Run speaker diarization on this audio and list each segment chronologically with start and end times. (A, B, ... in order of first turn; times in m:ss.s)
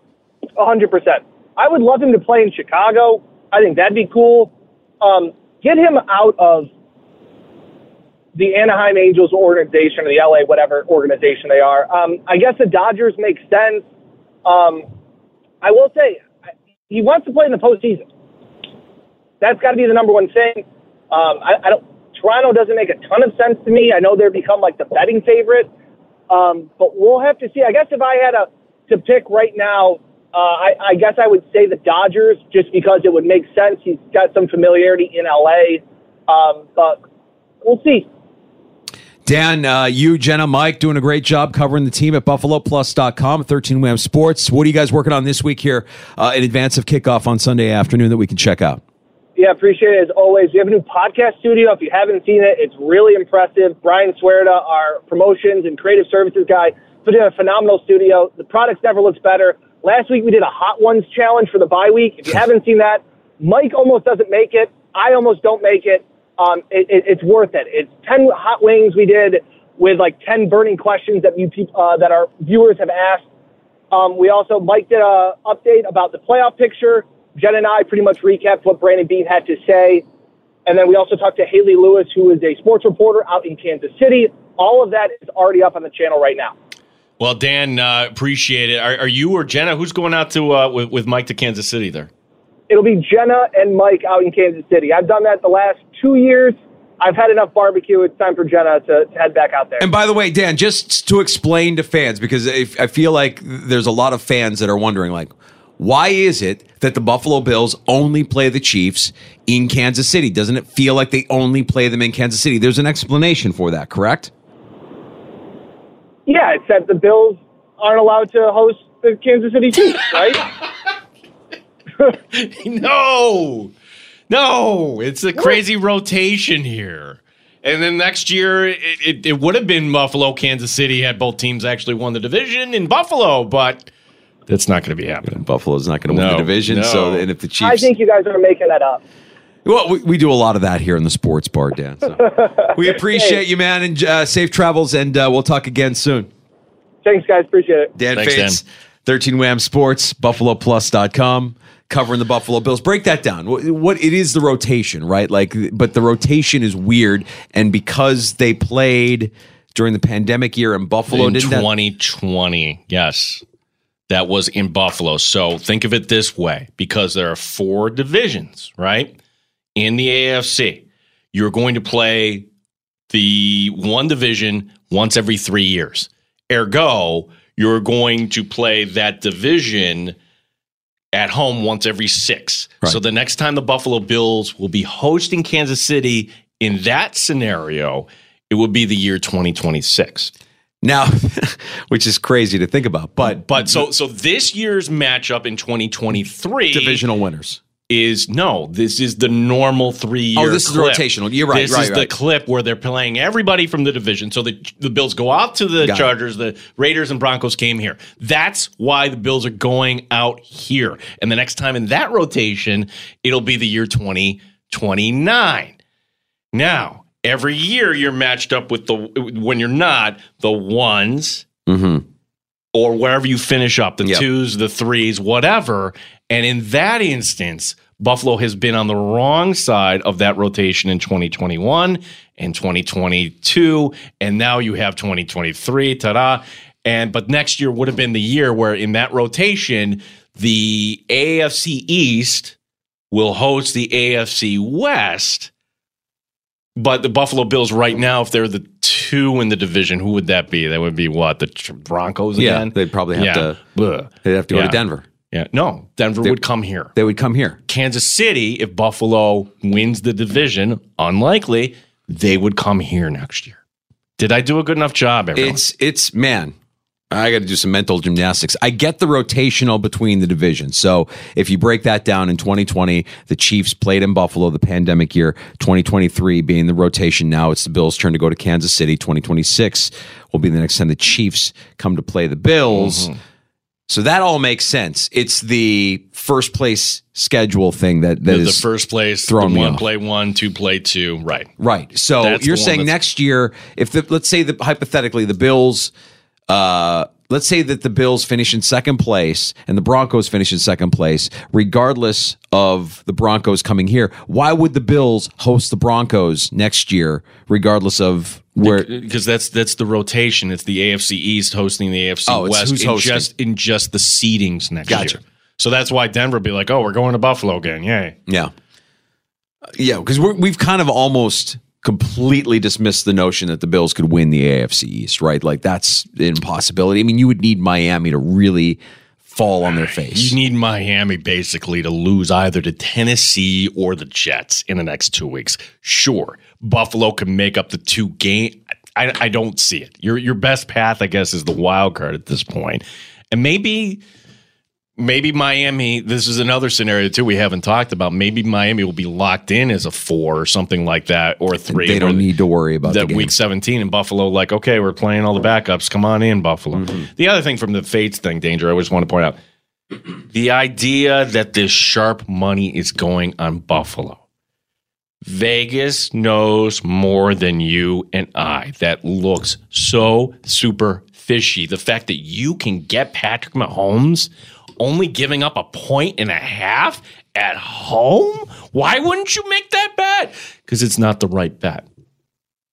0:00.6-0:06.7 A
0:08.3-0:13.8 A
0:14.4-0:14.9 A
0:15.6-0:16.2 A
0:16.9-0:18.0 A
0:19.4-0:25.7 A
0:26.3-0:37.0 A
0:37.6-0:38.1 A
0:39.2-0:48.8 B
0:49.4-1:13.2 A
1:13.9-1:20.0 A
1:20.6-1:26.5 A
1:27.2-1:32.1 C
1:32.7-1:39.9 A
1:39.8-1:54.3 B
1:56.2-2:00.4 A
2:02.3-2:03.7 C
2:04.3-2:13.9 C
2:14.5-2:15.4 C
2:15.2-2:17.9 B
2:16.1-2:17.3 C
2:17.6-2:19.0 A
2:19.6-2:26.3 B
2:23.0-2:23.4 A
2:27.0-2:27.9 A
2:28.0-2:41.7 B
2:28.1-2:28.6 C
2:41.1-2:43.4 C
2:44.1-2:49.1 C
2:49.8-2:52.4 C
2:53.1-3:00.2 C
3:01.1-3:10.3 C
3:10.8-3:13.8 B
3:13.2-3:17.0 C
3:16.7-3:17.6 B
3:17.9-3:35.8 C
3:20.4-3:22.1 B
3:25.8-3:26.1 B
3:36.5-3:41.4 C
3:41.7-3:42.0 B
3:42.7-4:02.5 C
4:03.1-4:05.5 C
4:06.8-4:16.9 C
4:12.4-4:13.6 B
4:14.2-4:15.0 B
4:16.9-4:17.6 B
4:17.7-4:23.6 C
4:24.2-4:25.6 C
4:25.3-4:26.5 B
4:27.1-4:43.1 B
4:42.7-4:43.2 C
4:43.9-4:48.6 B
4:48.3-4:51.5 C
4:49.2-4:49.8 B
4:51.6-4:55.9 B
4:52.2-4:52.9 C
4:56.5-5:08.9 B
5:08.6-5:18.2 C
5:12.3-5:13.3 B
5:14.9-5:15.2 B
5:19.7-5:30.4 B
5:29.7-5:44.0 C
5:45.0-5:52.3 C
5:51.7-5:53.3 B
5:52.8-5:59.4 C
5:56.7-5:57.1 B
6:00.3-6:04.2 C
6:05.2-6:21.8 C